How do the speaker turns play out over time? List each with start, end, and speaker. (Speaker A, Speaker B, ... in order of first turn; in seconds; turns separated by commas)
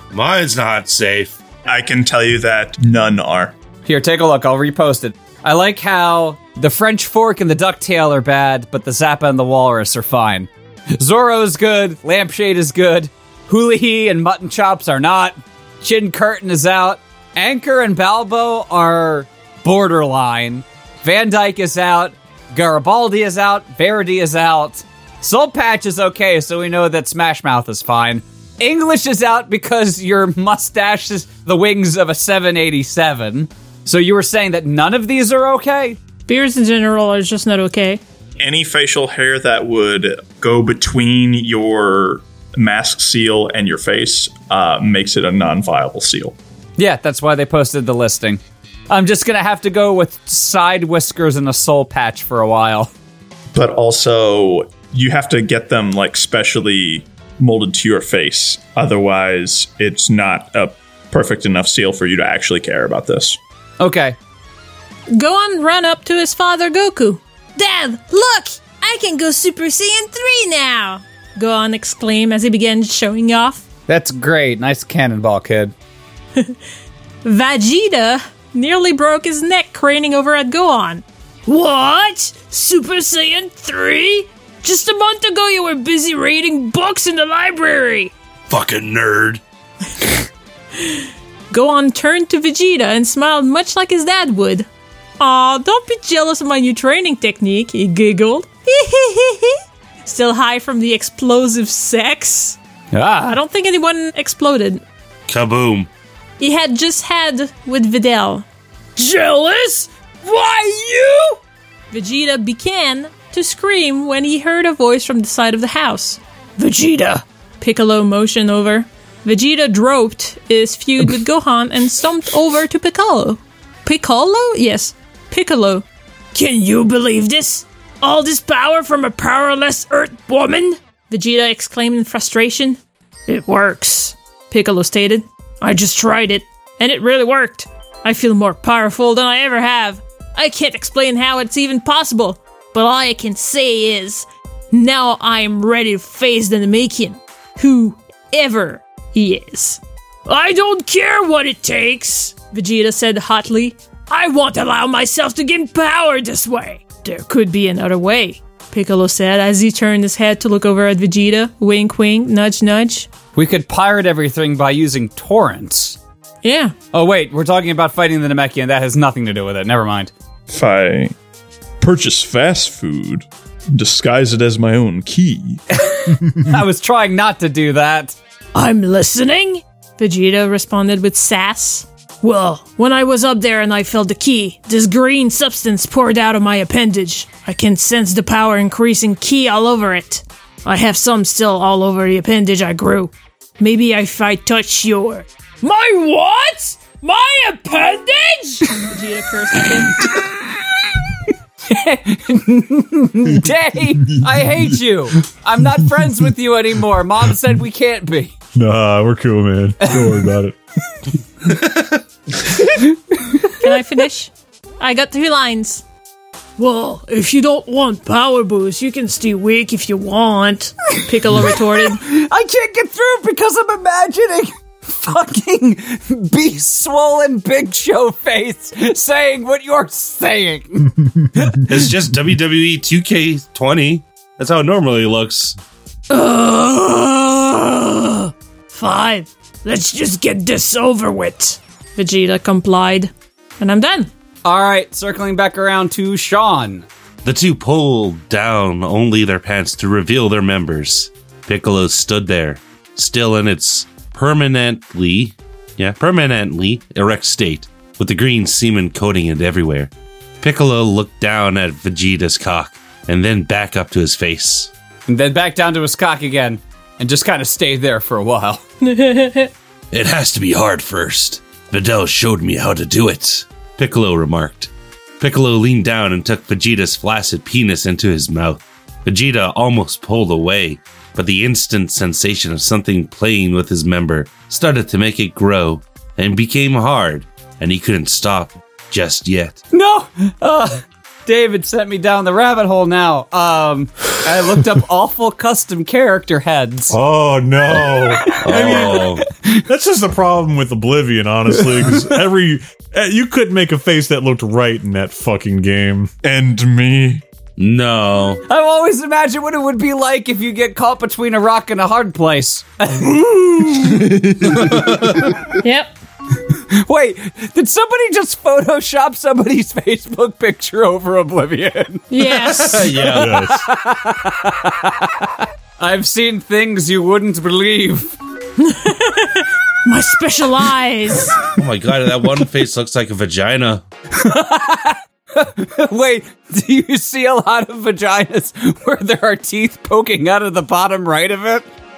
Speaker A: 0.1-1.4, Speaker B: 1.7-3.5, Speaker C: 3.9-36.0, Speaker D: 36.3-38.0, Speaker B: 38.4-46.4, Speaker C: 46.8-52.9, Speaker B: 53.5-63.4, Speaker C: 63.8-64.2, Speaker D: 65.1-73.6, Speaker C: 73.9-75.7, Speaker D: 77.2-88.1, Speaker A: 88.5-89.4, Speaker D: 90.8-94.7, Speaker D: 95.2-102.6, Speaker C: 102.9-103.4, Speaker D: 103.2-104.8, Speaker A: 105.3-105.9, Speaker D: 106.4-108.5, Speaker D: 109.0-111.4, Speaker D: 111.9-163.1, Speaker C: 163.3-166.0, Speaker D: 166.4-166.7, Speaker C: 166.9-170.1, Speaker B: 170.5-171.2, Speaker B: 171.8-175.6, Speaker C: 175.7-178.2, Speaker D: 178.6-200.2, Speaker C: 201.7-208.3, Speaker E: 204.0-204.3, Speaker E: 205.8-206.1, Speaker E: 208.5-210.6, Speaker C: 209.8-210.2, Speaker A: 211.5-211.9, Speaker C: 212.6-213.5, Speaker D: 213.5-215.8, Speaker D: 216.6-222.0, Speaker C: 221.3-231.7, Speaker A: 231.6-235.6, Speaker D: 236.1-244.1, Speaker C: 244.4-246.9, Speaker A: 247.2-259.9, Speaker A: 260.4-264.7, Speaker C: 265.1-268.6, Speaker D: 268.8-269.5, Speaker A: 269.9-289.6, Speaker C: 289.7-297.0, Speaker E: 296.9-299.0, Speaker C: 298.3-299.6, Speaker A: 298.4-299.2, Speaker E: 299.7-306.1, Speaker B: 306.2-307.2, Speaker A: 307.6-308.4, Speaker C: 308.5-314.1, Speaker A: 314.2-315.4, Speaker D: 315.6-315.9, Speaker C: 316.4-328.1, Speaker D: 322.1-322.9, Speaker A: 322.3-323.5, Speaker E: 323.1-323.7, Speaker D: 328.6-331.4, Speaker A: 331.5-333.8, Speaker C: 334.1-341.7